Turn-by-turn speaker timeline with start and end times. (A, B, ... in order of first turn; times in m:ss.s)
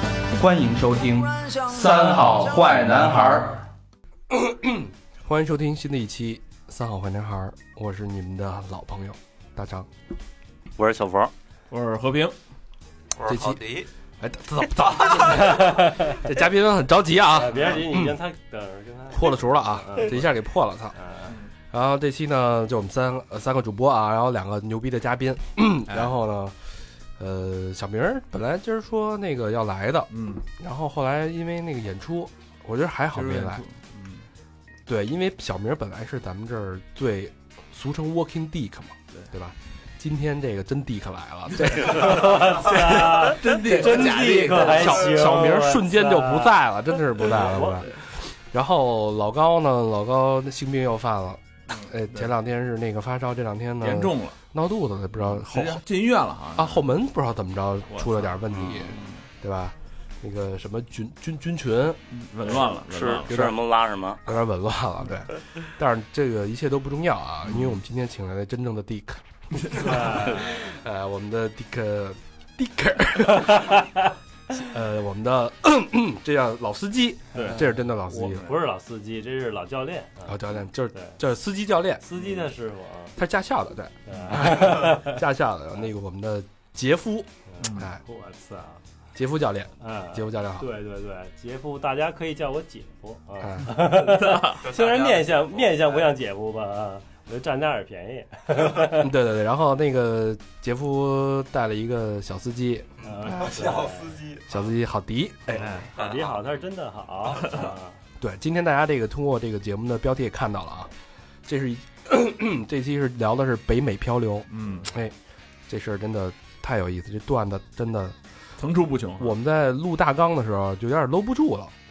0:00.3-0:03.6 A
0:04.3-0:09.9 B
0:10.8-0:11.3 C
0:11.7-0:12.3 D
0:13.2-0:13.8 C
0:13.2-0:13.6 B
0:14.2-0:18.1 B
0:15.1-0:16.2 E
0:17.3-0:20.2 E
0:19.1-0:21.0 B
0:21.0-0:21.3 E
0:21.7-0:26.6 B
0:27.2-0:33.6 B
0:30.1-0:30.4 D
0:33.1-0:34.2 D
0:34.9-0:42.8 B
0:41.6-0:42.0 D
0:41.8-0:46.6 E
0:42.6-0:45.1 D
0:44.6-0:55.8 B
0:47.2-0:47.8 E
0:51.7-0:52.3 D
0:53.8-0:54.3 D
0:55.2-0:56.8 D
0:56.6-1:02.0 B
0:57.9-0:59.1 D
1:02.1-1:03.3 D
1:02.7-1:04.2 C
1:03.3-1:03.6 B
1:04.2-1:09.2 B
1:07.4-1:07.7 D
1:09.7-1:10.8 E
1:09.7-1:13.8 B
1:13.5-1:14.0 E
1:14.6-1:18.5 B
1:17.3-1:17.6 D
1:17.3-1:20.4 E
1:18.2-1:18.5 D
1:20.3-1:22.0 B
1:22.0-1:23.1 E
1:23.2-1:28.0 B
1:24.0-1:25.2 E
1:27.5-1:28.8 E
1:27.6-1:27.9 D
1:29.2-1:30.7 B
1:29.8-1:39.1 E
1:33.4-1:33.8 B
1:33.9-1:34.6 D
1:38.9-1:43.7 B
1:43.0-1:44.3 E
1:44.4-1:45.8 B
1:45.6-1:48.0 E
1:45.6-1:45.9 D
1:47.4-1:47.7 D
1:48.2-1:50.9 B
1:51.4-1:55.1 B
1:54.5-1:54.9 D
1:55.7-1:58.2 B
1:58.6-1:59.3 D
1:59.2-2:01.7 B